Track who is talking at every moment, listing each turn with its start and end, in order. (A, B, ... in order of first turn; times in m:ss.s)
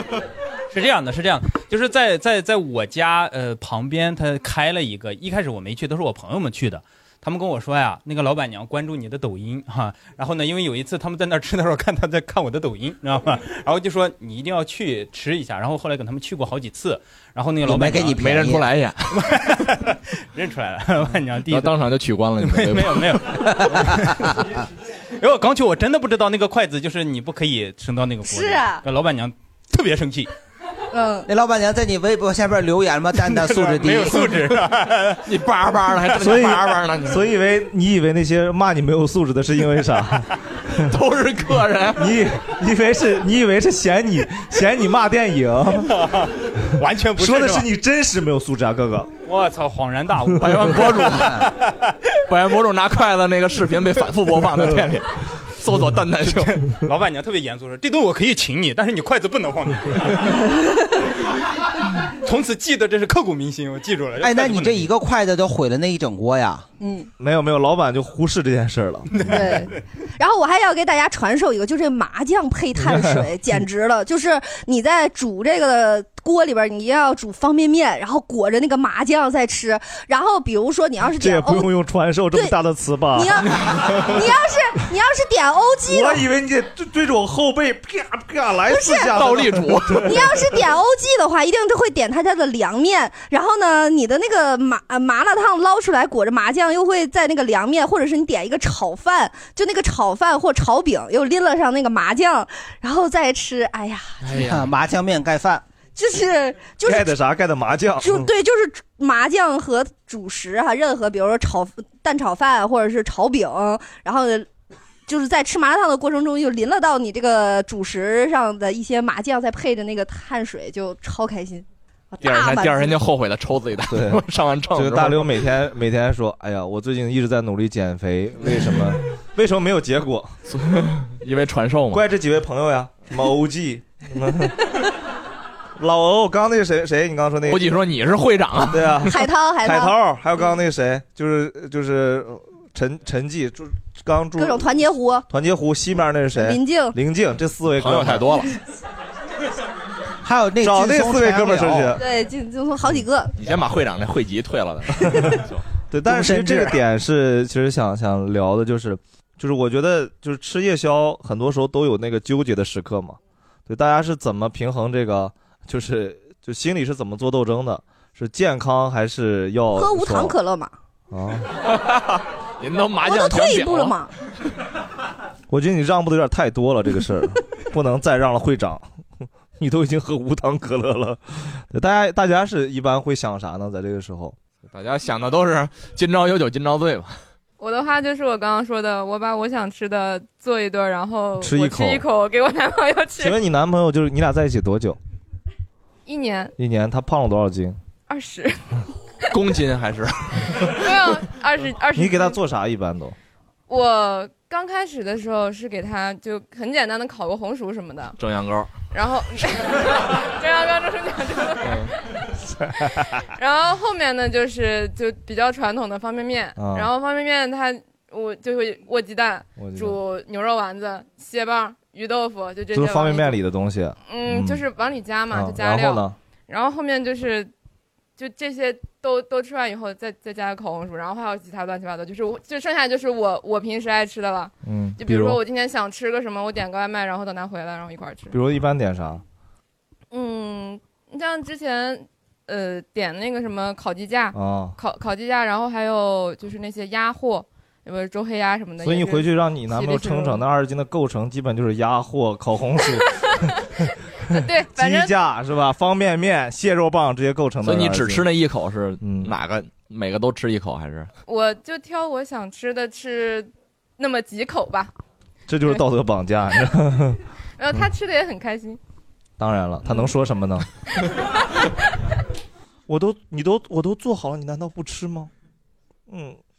0:00.7-0:18.2 A
0:17.6-0:18.7 B
0:18.2-0:19.1 C
0:19.1-0:21.7 A
0:21.4-0:23.3 C
0:22.4-0:24.3 A
0:23.5-0:24.1 B
0:25.2-0:30.3 A
0:28.2-0:28.8 D
0:30.9-0:31.3 D
0:31.3-0:34.4 B
0:33.3-0:35.2 A
0:35.2-0:37.2 C
0:36.1-0:40.3 E
0:40.8-0:42.0 C
0:42.0-0:46.1 E
0:46.0-0:47.7 A
0:47.2-0:49.1 E
0:49.2-0:51.5 A
0:50.4-0:51.5 C
0:52.3-0:56.6 C
0:56.2-1:00.4 A
1:02.2-1:04.9 A
1:04.2-1:06.7 B
1:06.8-1:07.1 D
1:07.2-1:09.3 E
1:09.2-1:09.6 A
1:09.2-1:21.7 D
1:12.8-1:13.2 E
1:21.2-1:24.2 E
1:23.1-1:26.2 D
1:25.9-1:30.5 E
1:28.7-1:29.2 D
1:29.1-1:30.1 C
1:30.0-1:44.4 D
1:44.2-1:45.6 B
1:46.0-1:47.2 D
1:46.8-1:48.3 E
1:48.0-1:54.5 D
1:55.1-2:03.0 D
2:02.2-2:05.4 C
2:03.9-2:04.2 E
2:04.7-2:10.4 E
2:10.5-2:12.0 C
2:11.9-2:14.6 E
2:15.8-2:17.7 E
2:17.4-2:19.0 C
2:18.7-2:24.7 E
2:19.0-2:20.0 D
2:24.4-2:25.2 D
2:25.3-2:28.4 E
2:26.3-2:27.0 D
2:27.8-2:28.5 C
2:30.2-2:32.0 B
2:30.6-2:32.0 E
2:32.0-2:33.3 D
2:33.4-2:35.6 C
2:35.0-2:35.4 D
2:35.9-2:50.3 E
2:36.1-2:36.8 B
2:49.7-2:50.7 D
2:51.1-2:51.5 E
2:51.6-2:54.0 C
2:53.0-2:54.1 D
2:55.5-2:58.8 E
2:59.6-3:04.4 E
3:04.7-3:07.2 C
3:07.6-3:13.4 F
3:11.4-3:12.0 E
3:13.2-3:15.0 E
3:16.0-3:16.5 F
3:16.6-3:17.8 E
3:18.1-3:18.8 F
3:19.3-3:20.8 C
3:20.6-3:22.4 F
3:21.9-3:23.2 E
3:23.7-3:28.2 F
3:28.2-3:28.7 C
3:28.9-3:32.0 F
3:31.6-3:31.9 C
3:33.0-3:43.4 F
3:36.6-3:36.9 E
3:39.6-3:40.0 E
3:42.7-3:44.6 E
3:44.1-3:47.5 F
3:45.3-3:46.2 E
3:48.2-3:58.3 F
3:54.6-3:55.4 E
3:58.3-3:59.2 E
4:00.1-4:10.4 F
4:04.3-4:04.7 E
4:08.8-4:13.2 E
4:14.3-4:15.1 F
4:14.7-4:18.3 E
4:17.6-4:21.1 C
4:19.0-4:19.3 E
4:21.2-4:24.9 F
4:25.5-4:27.2 E
4:27.6-4:28.8 F
4:29.4-4:30.6 E
4:32.9-4:35.3 E
4:36.1-4:36.4 E